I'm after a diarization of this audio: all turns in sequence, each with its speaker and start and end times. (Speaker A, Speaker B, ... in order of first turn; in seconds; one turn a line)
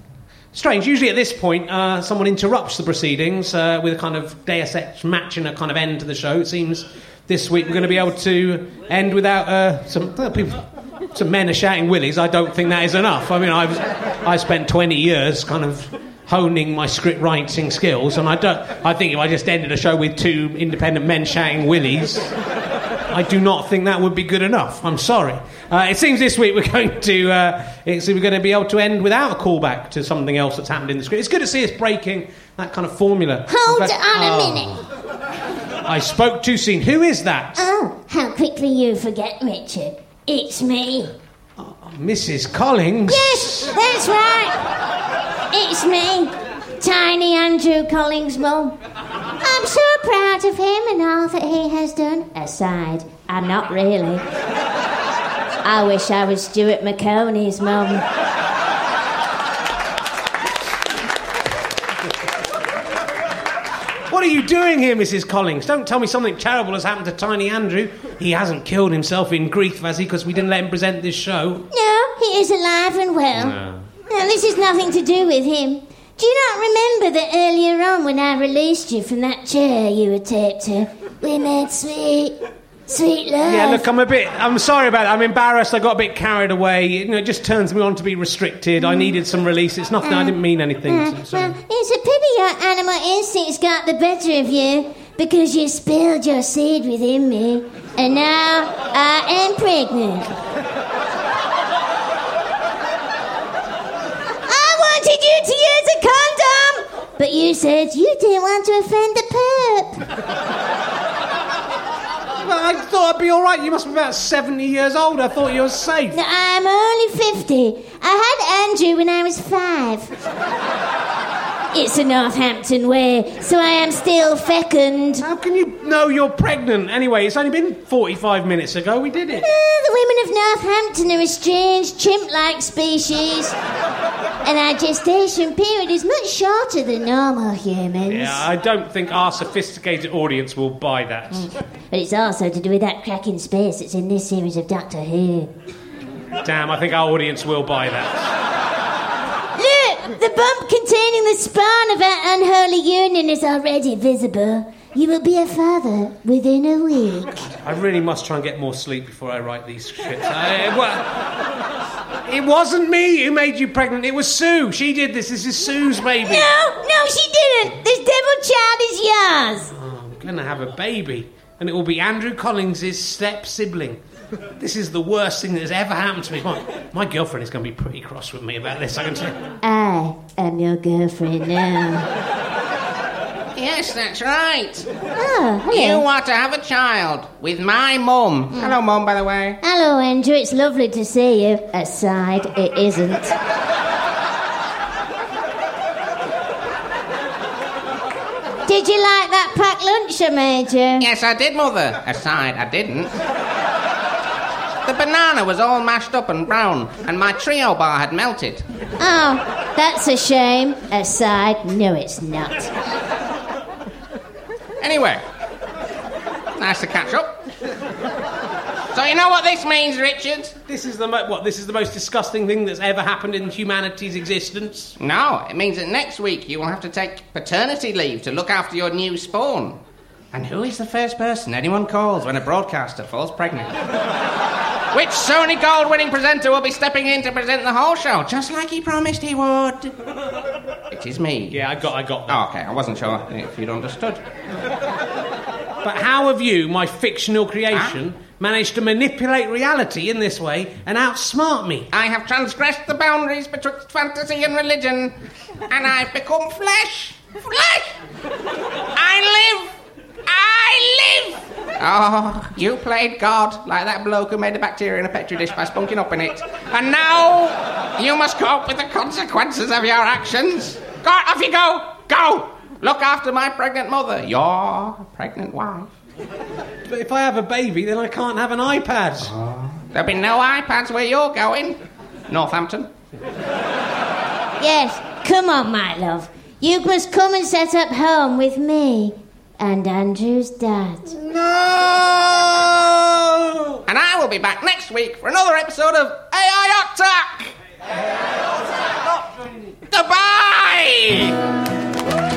Speaker A: 0.5-22.3
Speaker A: 23.1-34.9
Speaker B: 33.5-34.7
Speaker A: 35.8-37.6
Speaker B: 37.5-41.1
Speaker A: 41.6-43.7
Speaker B: 43.1-44.7
Speaker B: 45.5-48.8
Speaker B: 49.4-54.2
Speaker B: 55.6-58.0
Speaker A: 64.1-71.7
Speaker B: 71.7-73.5
Speaker A: 73.3-73.9
Speaker B: 74.1-82.4
Speaker B: 82.9-83.8
Speaker A: 83.4-91.5
Speaker B: 88.8-89.2
Speaker B: 90.0-100.3
Speaker B: 104.5-110.1
Speaker A: 112.4-116.2
Speaker B: 116.1-120.1
Speaker B: 121.7-125.3
Speaker A: 125.2-129.4
Speaker B: 129.4-133.6
Speaker B: 134.4-138.4
Speaker A: 138.1-141.5
Speaker B: 141.9-145.5
Speaker A: 146.4-148.3
Speaker B: 149.6-157.4
Speaker A: 157.4-161.3
Speaker A: 162.3-166.5
Speaker B: 166.2-169.7
Speaker A: 169.7-174.0
Speaker A: 174.6-179.4
Speaker B: 179.6-182.1
Speaker C: 183.6-184.9
Speaker B: 185.1-186.1
Speaker C: 185.7-189.6
Speaker B: 189.6-193.3
Speaker B: 198.7-201.1
Speaker C: 201.0-203.1
Speaker C: 204.8-208.6
Speaker B: 209.0-212.7
Speaker C: 214.8-215.2
Speaker C: 216.6-217.4
Speaker C: 218.9-220.6
Speaker A: 220.7-224.9
Speaker C: 225.0-229.8
Speaker C: 230.3-233.8
Speaker C: 234.9-239.9
Speaker C: 240.9-241.6
Speaker A: 241.5-242.4
Speaker C: 242.3-244.2
Speaker A: 245.8-251.9
Speaker C: 251.9-255.1
Speaker C: 255.7-257.9
Speaker C: 258.9-259.7
Speaker C: 260.3-275.9
Speaker A: 276.9-279.3
Speaker C: 279.2-282.9
Speaker B: 284.6-291.1
Speaker A: 291.2-293.8
Speaker C: 293.9-297.6
Speaker C: 299.9-301.4